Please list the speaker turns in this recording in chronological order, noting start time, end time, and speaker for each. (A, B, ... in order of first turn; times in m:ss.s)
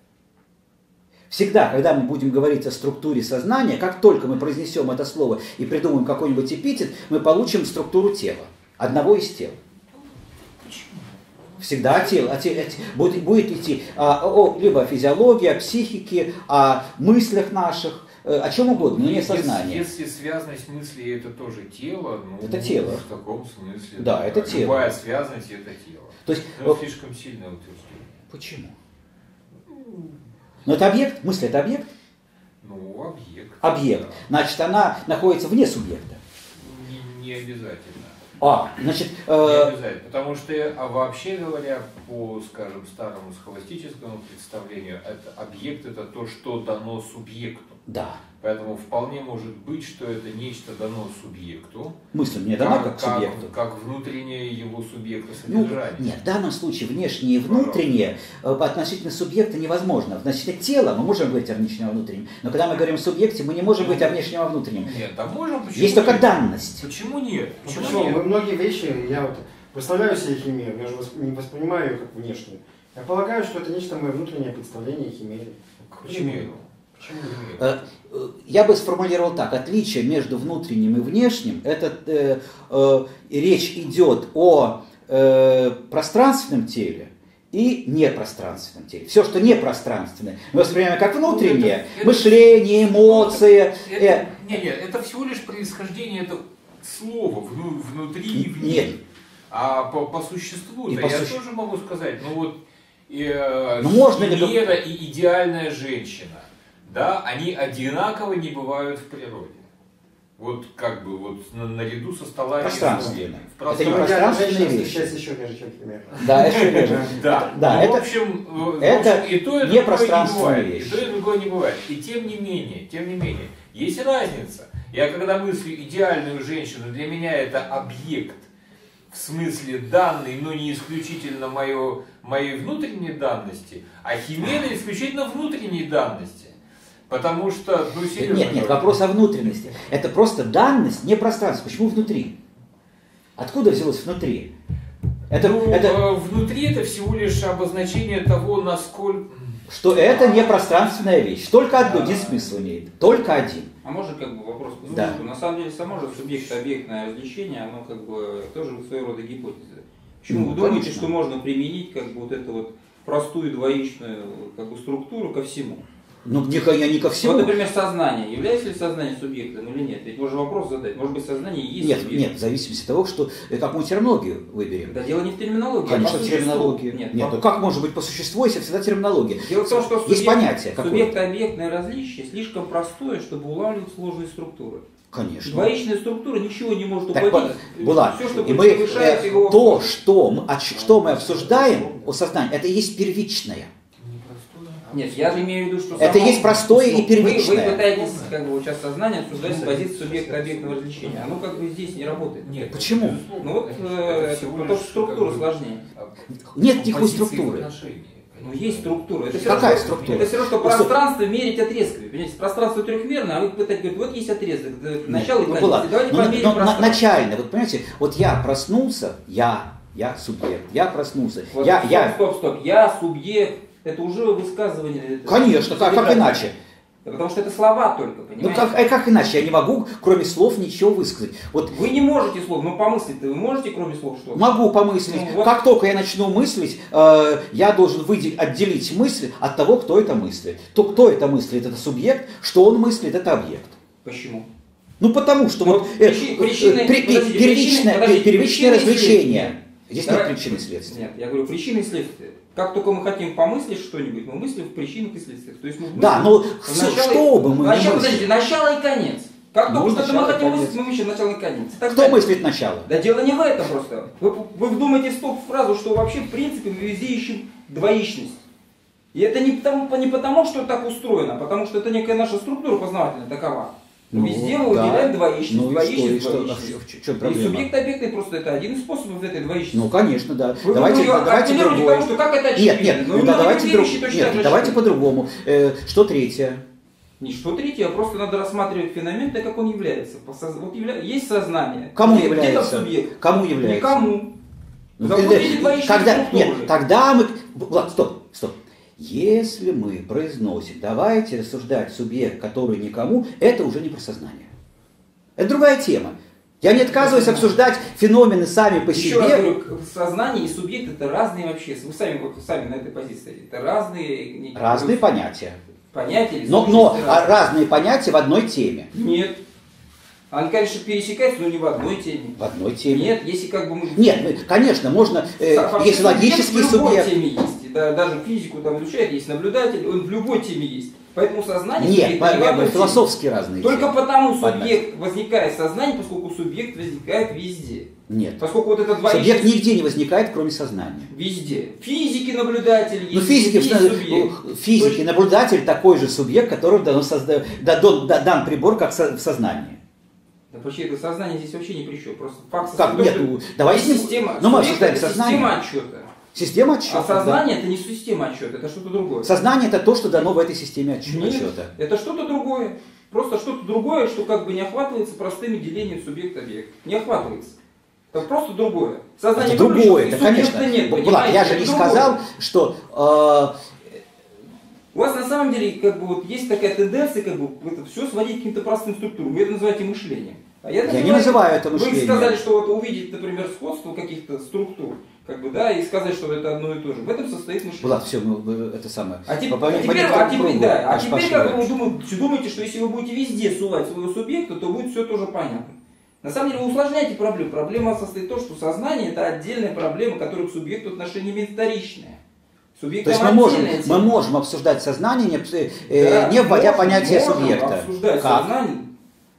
0:01.3-0:09.6 A
0:10.6-0:11.2 B
0:11.6-0:19.8 A
0:11.9-0:12.2 B
0:18.7-0:28.2 B
0:22.4-0:23.0 A
0:24.0-0:24.9 A
0:26.2-0:26.8 A
0:28.3-0:28.7 A
0:29.6-0:30.2 B
0:30.6-0:31.9 A
0:32.6-0:34.2 B
0:33.6-0:36.2 A
0:36.5-0:38.2 B
0:38.4-0:39.7 A
0:39.4-0:47.8 B
0:47.9-0:48.2 A
0:48.4-0:52.0 B
0:52.1-0:53.5 A
0:52.6-0:56.1 B
0:55.5-1:05.0 A
0:57.4-0:57.8 B
1:03.8-1:08.2 B
1:05.7-1:06.8 A
1:07.6-1:17.6 C
1:15.9-1:16.6 B
1:17.2-1:17.6 B
1:17.6-1:34.2 A
1:31.2-1:39.0 B
1:38.3-1:39.0 A
1:39.5-1:49.7 B
1:40.9-1:41.4 A
1:43.8-1:44.6 A
1:50.4-1:54.8 B
1:52.6-1:55.1 A
1:52.8-1:57.2 C
1:56.1-2:08.5 B
1:56.2-1:58.0 A
1:58.8-2:01.0 A
2:09.1-2:16.5 B
2:17.1-2:19.0 B
2:18.1-2:22.4 A
2:23.4-2:24.5 A
2:25.3-2:26.0 A
2:25.3-2:29.6 B
2:29.7-2:33.7 A
2:30.0-2:30.6 D
2:31.8-2:32.3 B
2:33.8-2:45.8 D
2:34.9-2:35.2 A
2:40.3-2:41.1 A
2:46.2-2:47.5 A
2:47.2-2:52.3 D
2:51.8-2:55.0 A
2:54.9-2:57.4 D
2:55.8-3:01.1 A
2:59.4-3:04.8 D
3:05.1-3:05.7 A
3:05.4-3:09.9 D
3:07.1-3:13.7 A
3:10.7-3:12.1 C
3:14.0-3:16.7 B
3:14.9-3:25.8 D
3:16.0-3:17.8 A
3:17.2-3:18.4 B
3:19.4-3:21.2 C
3:19.6-3:20.4 B
3:22.4-3:30.3 B
3:22.7-3:23.2 A
3:26.5-3:27.7 A
3:28.4-3:37.0 D
3:29.4-3:30.9 A
3:35.0-3:42.2 A
3:41.5-3:46.4 D
3:45.2-3:46.5 A
3:47.0-3:48.8 D
3:48.4-3:51.7 A
3:51.7-3:55.5 D
3:54.3-4:03.8 A
4:04.0-4:04.5 D
4:05.0-4:11.0 A
4:05.6-4:09.5 D
4:10.0-4:28.4 D
4:15.9-4:18.3 A
4:19.6-4:20.8 A
4:21.9-4:22.9 A
4:29.1-4:39.9 D
4:34.1-4:37.7 A
4:39.7-4:46.6 A
4:40.6-4:44.8 D
4:47.2-4:54.3 D
4:51.9-4:54.1 A
4:55.0-5:04.5 A
4:55.0-4:56.7 D
5:05.4-5:09.5 A
5:06.7-5:07.5 D
5:08.9-5:15.0 D
5:14.5-5:15.6 A
5:15.9-5:17.3 D
5:16.4-5:18.9 A
5:18.9-5:19.4 D
5:20.3-5:24.3 D
5:22.4-5:23.1 A
5:23.9-5:27.1 A
5:25.4-5:33.0 D
5:31.8-5:34.8 A
5:33.6-5:39.5 D
5:38.1-5:38.4 A
5:39.0-5:41.1 A
5:41.1-5:45.0 D
5:43.1-5:49.8 A
5:50.5-5:56.1 D
5:52.6-5:55.5 A
5:56.3-5:57.4 A
5:56.9-5:59.3 D
5:59.2-6:01.7 A
6:01.0-6:07.5 D
6:08.1-6:12.2 D
6:09.4-6:13.5 A
6:14.9-6:27.9 D
6:20.8-6:22.4 A
6:27.8-6:31.7 A
6:29.3-6:42.2 D
6:42.8-6:44.1 D
6:43.0-6:48.5 A
6:45.9-6:48.9 D